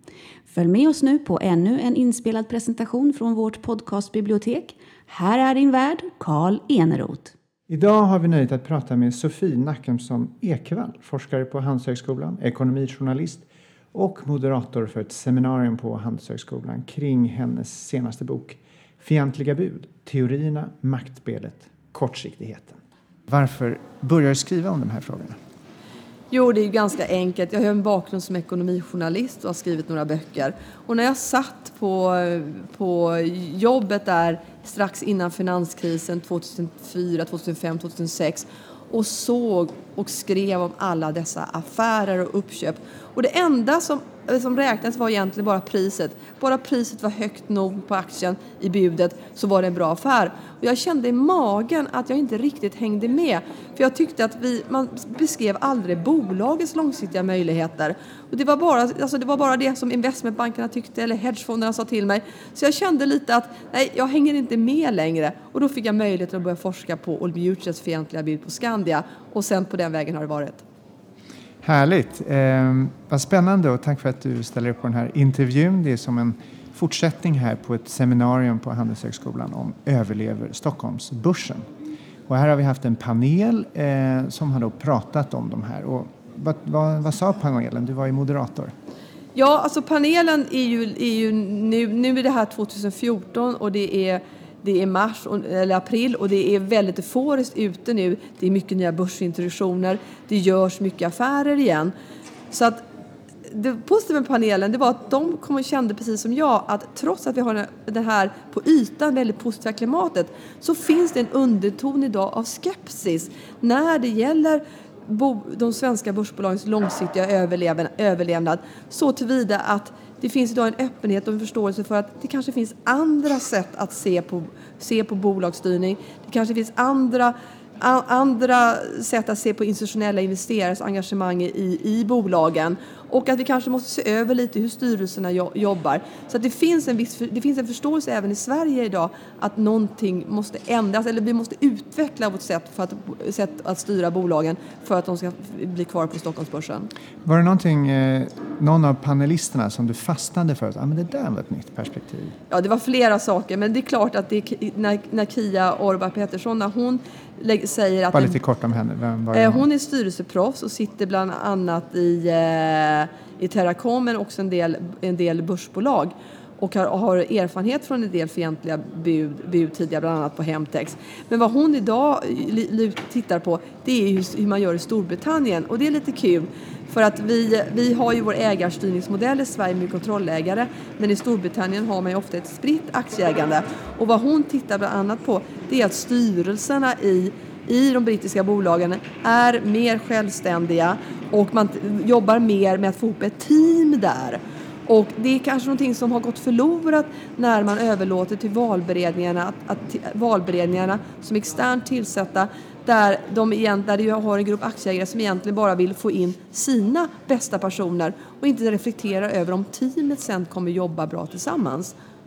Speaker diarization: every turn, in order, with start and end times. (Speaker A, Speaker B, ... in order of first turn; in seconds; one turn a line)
Speaker A: 0.5-7.3
Speaker B: 7.7-25.4
Speaker C: 26.3-70.6
Speaker B: 71.6-81.7
Speaker B: 82.3-88.7
Speaker C: 89.3-101.9
Speaker C: 102.5-102.8
Speaker C: 103.5-146.9
Speaker B: 147.2-152.3
Speaker C: 152.5-158.4
Speaker B: 158.1-159.7
Speaker C: 159.3-211.9